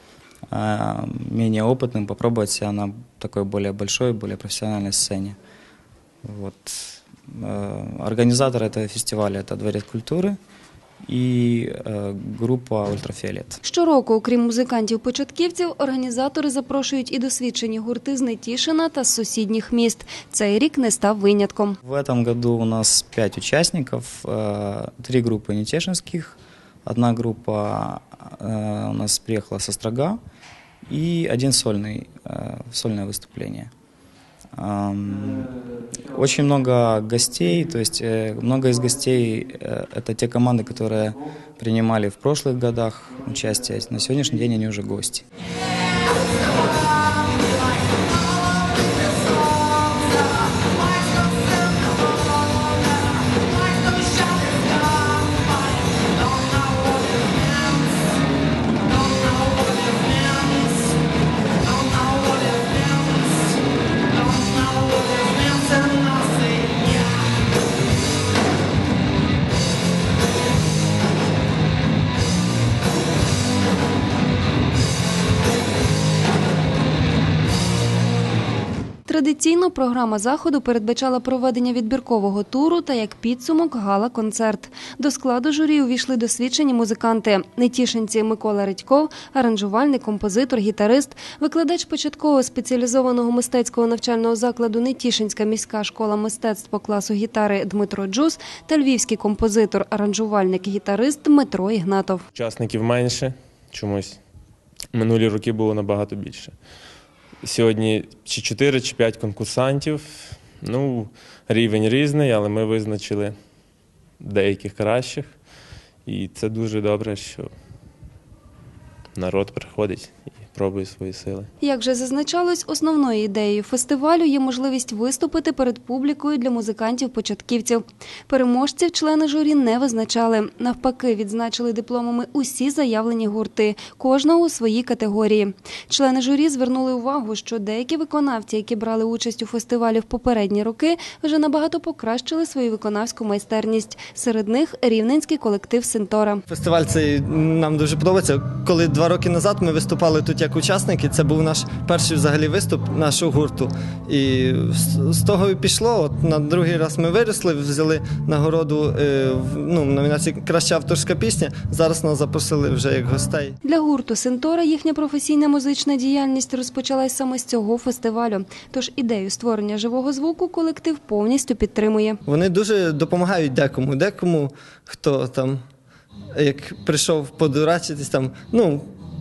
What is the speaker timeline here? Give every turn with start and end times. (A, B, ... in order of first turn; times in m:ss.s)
0:00.5-0:05.4 A
0:06.2-0:10.4 A
0:11.1-0:13.6 A
0:13.6-0:21.8 B
0:21.8-0:30.2 A
0:30.9-0:33.7 A
0:34.5-0:35.5 A
0:36.1-0:45.2 A
0:53.3-0:55.4 C
0:59.6-1:00.8 C
1:02.1-1:03.4 C
1:04.2-1:07.0 C
1:19.1-1:42.3 B
1:42.4-1:44.2 C
1:44.9-1:46.6 C
1:47.4-1:53.4 C
1:54.2-1:55.4 C
1:56.1-1:57.5 C
1:59.2-2:01.5 C
2:01.6-2:26.4 B
2:26.5-2:43.6 D
2:43.6-2:52.2 B
2:52.3-2:55.6 D
2:56.4-2:58.8 D